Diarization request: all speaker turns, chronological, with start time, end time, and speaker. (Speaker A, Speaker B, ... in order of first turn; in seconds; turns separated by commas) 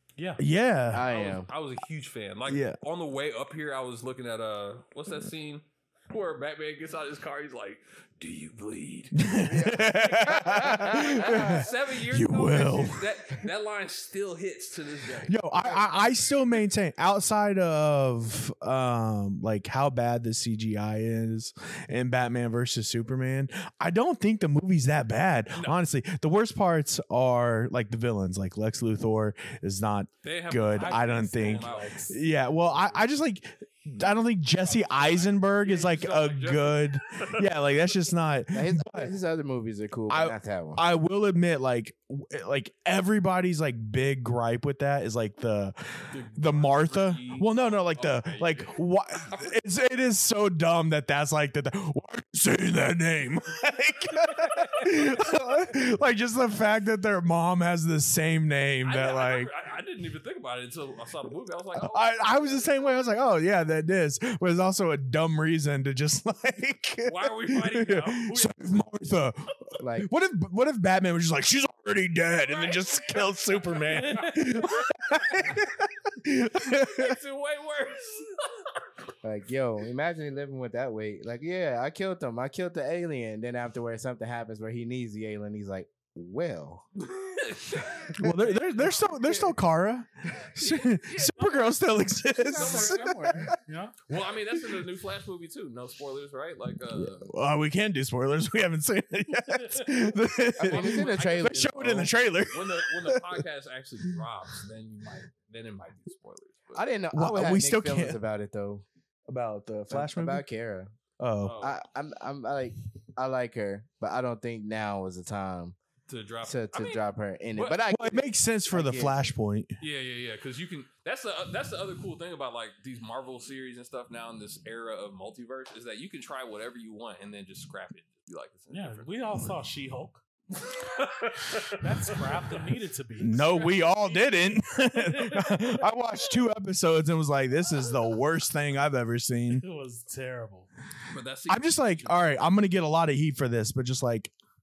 Speaker A: 0.2-0.4, Speaker B: 0.4-1.1, Speaker C: 0.9-1.5, Speaker D: 1.0-9.5, Speaker B: 2.5-2.8, Speaker B: 9.1-13.4, Speaker C: 9.5-11.7, Speaker D: 10.6-16.3, Speaker B: 15.2-39.1, Speaker D: 25.5-25.8, Speaker D: 30.2-32.8, Speaker A: 30.8-32.2, Speaker D: 34.8-37.5, Speaker C: 38.5-40.8, Speaker B: 40.1-59.5, Speaker D: 46.1-49.6, Speaker D: 54.5-55.1, Speaker D: 58.8-62.6, Speaker B: 61.7-77.2, Speaker D: 67.0-68.9, Speaker C: 69.8-70.1, Speaker D: 72.3-75.7, Speaker D: 76.5-78.8, Speaker C: 79.2-86.8, Speaker D: 87.0-89.5, Speaker B: 88.2-93.5, Speaker D: 90.6-91.7, Speaker C: 92.4-93.5, Speaker D: 92.4-93.5, Speaker A: 93.6-94.0, Speaker D: 94.1-97.3, Speaker B: 96.9-103.4, Speaker A: 99.5-100.0, Speaker C: 100.6-102.1, Speaker D: 100.6-106.8, Speaker C: 106.7-108.8, Speaker B: 107.1-108.2, Speaker B: 109.3-110.4, Speaker C: 109.9-110.9, Speaker B: 111.2-111.6, Speaker D: 111.4-111.8, Speaker C: 111.6-115.8, Speaker D: 116.1-117.8, Speaker C: 116.4-119.2, Speaker B: 117.9-119.7, Speaker D: 119.8-129.3, Speaker A: 128.7-130.2, Speaker D: 130.6-132.7, Speaker A: 131.7-135.8, Speaker B: 133.2-139.6, Speaker D: 133.4-133.9, Speaker A: 139.5-140.7, Speaker D: 141.1-142.2, Speaker B: 141.5-144.3